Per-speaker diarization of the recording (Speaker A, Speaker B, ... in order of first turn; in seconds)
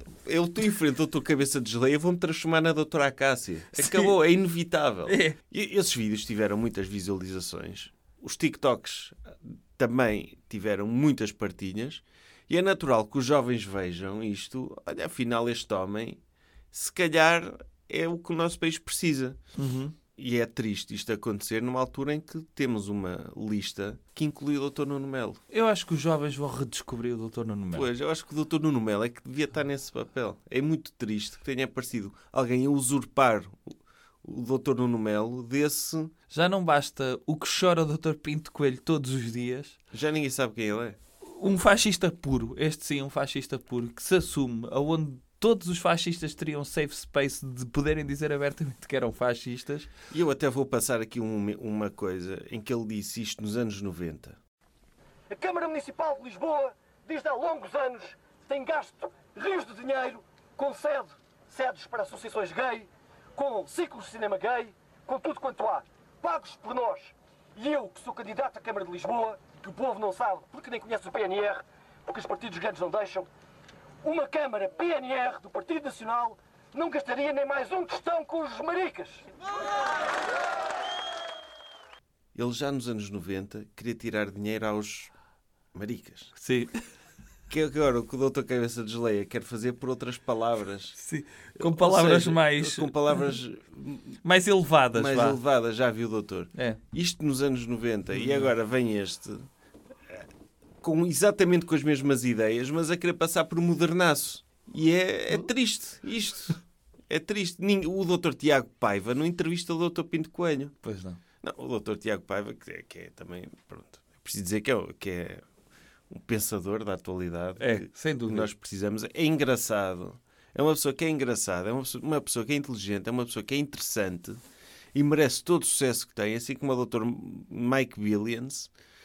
Speaker A: 0.2-16.2, 16.7-19.4, 20.1-25.4, 27.7-36.1, 39.9-41.0, 50.1-54.4, 82.3-85.1, 85.7-86.3, 87.5-91.0, 91.5-94.2, 94.9-99.5, 100.8-110.7, 111.4-115.4, 116.1-124.4, 124.9-128.7
Speaker B: 3.8-4.1, 5.1-5.4, 19.6-19.9, 25.5-27.9, 36.3-39.8, 41.2-49.9, 86.3-86.7, 91.0-93.2, 94.2-95.4, 98.1-98.5, 110.8-111.2, 117.6-118.5
Speaker C: 55.3-73.3, 74.0-79.2